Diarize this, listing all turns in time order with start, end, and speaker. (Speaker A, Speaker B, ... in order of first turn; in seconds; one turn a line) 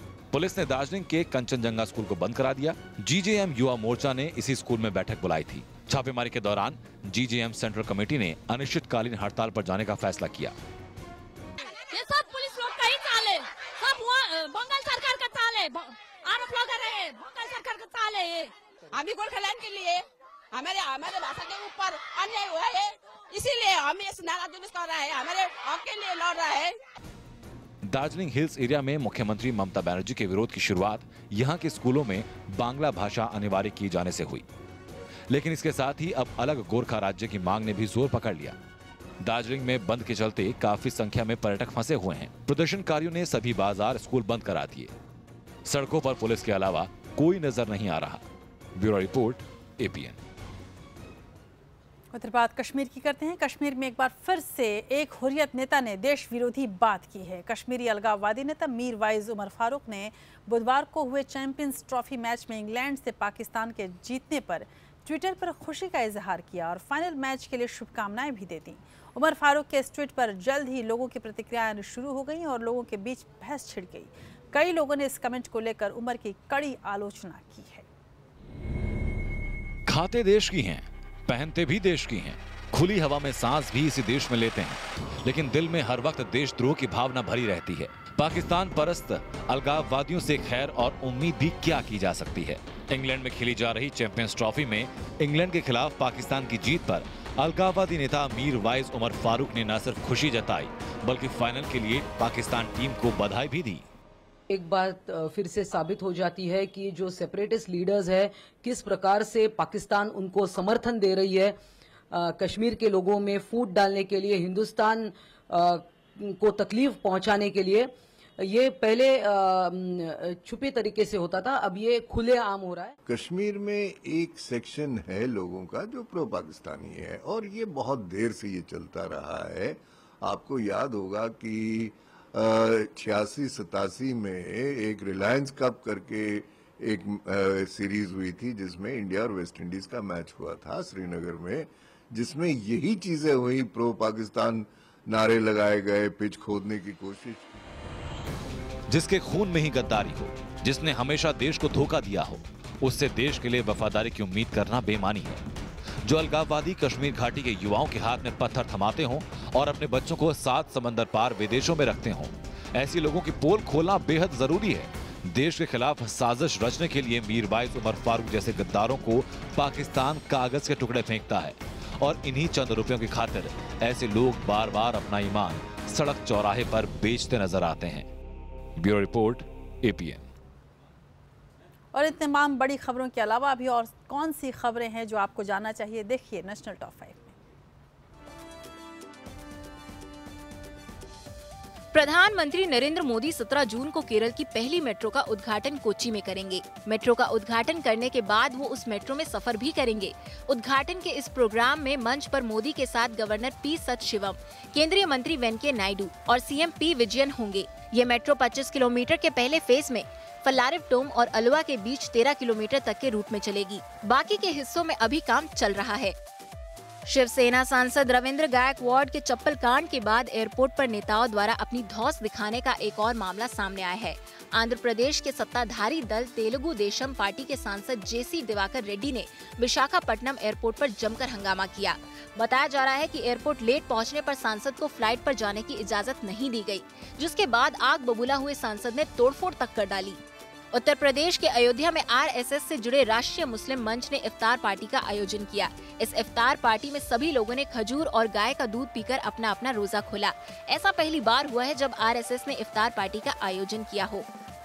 Speaker A: 0.3-10.6
Speaker B: 11.9-18.5
Speaker C: 17.5-17.9
Speaker C: 18.9-26.8
Speaker A: 27.8-34.4
Speaker A: 35.3-38.6
Speaker A: 39.2-44.9
Speaker A: 45.6-50.2
Speaker D: 52.1-77.8
Speaker A: 79.9-103.8
Speaker E: 104.5-111.5
Speaker E: 112.1-122.9
Speaker F: 123.0-147.4
Speaker A: 148.9-155.4
Speaker A: 156.0-178.1
Speaker A: 178.8-180.3
Speaker D: 181.9-187.3
Speaker G: 191.9-216.2
Speaker G: 217.1-240.2
Speaker G: 240.7-254.2